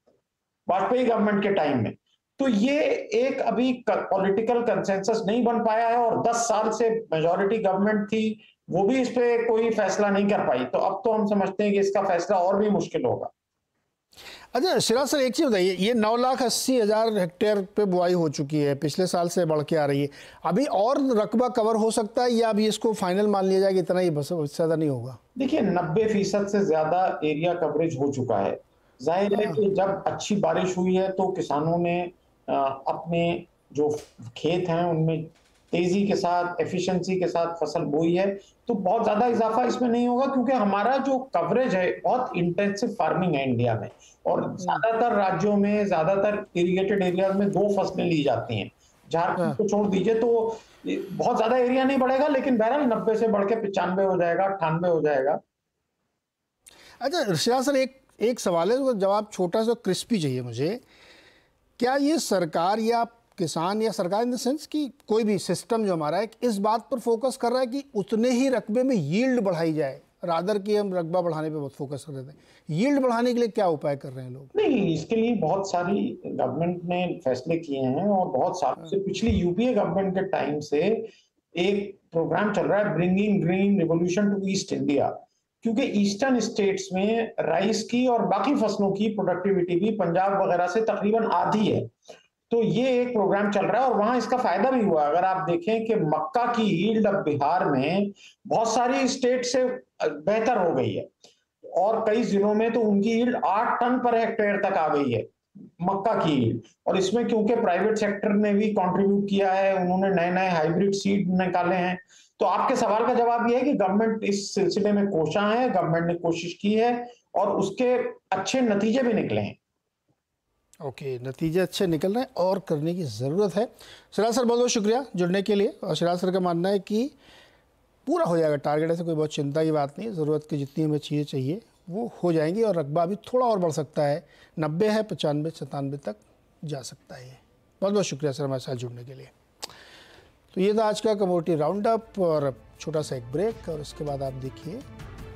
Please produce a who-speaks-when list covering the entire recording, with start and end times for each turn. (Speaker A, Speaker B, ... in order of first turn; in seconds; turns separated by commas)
Speaker A: 0.7-13.3, Speaker B: 14.5-25.2, Speaker A: 25.4-55.4, Speaker B: 57.0-60.8, Speaker B: 61.8-74.5, Speaker A: 74.5-91.9, Speaker A: 92.5-101.1, Speaker A: 101.7-105.2, Speaker A: 105.8-119.5, Speaker B: 120.8-127.1, Speaker B: 128.1-139.3, Speaker B: 140.5-144.8